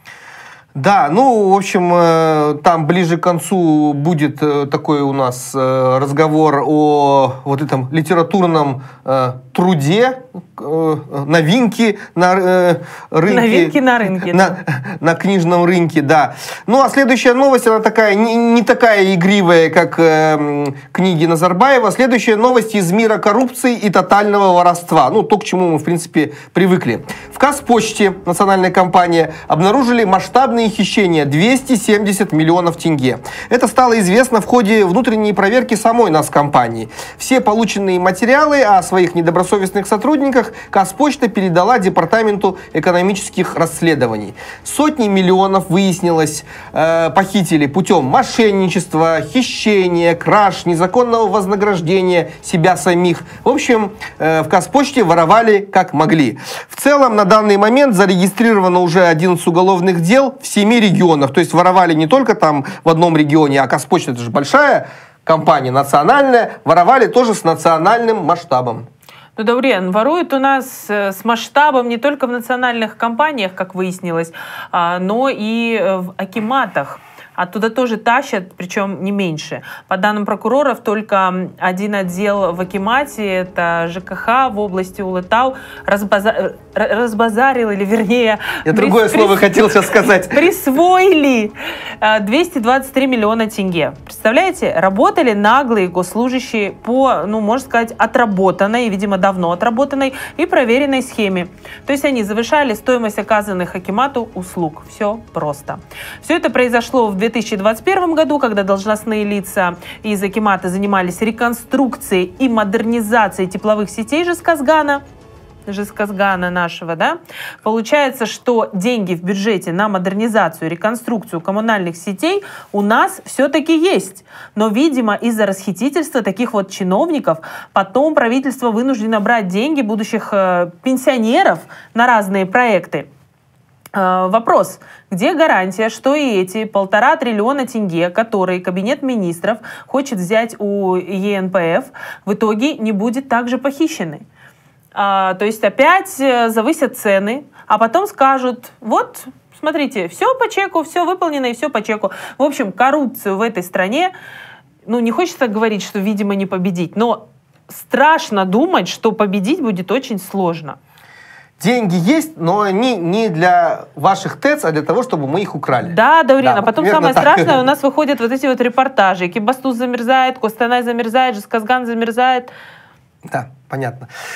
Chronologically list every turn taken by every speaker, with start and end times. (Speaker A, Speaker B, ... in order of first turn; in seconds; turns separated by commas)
Speaker A: 0.7-13.8, Speaker B: 13.3-14.6, Speaker A: 14.3-68.9, Speaker B: 69.3-115.0, Speaker A: 88.6-90.4, Speaker B: 115.7-133.1, Speaker B: 133.9-144.2, Speaker B: 144.9-154.1, Speaker B: 154.8-160.8, Speaker A: 161.6-167.6, Speaker B: 165.8-172.5, Speaker A: 173.3-174.1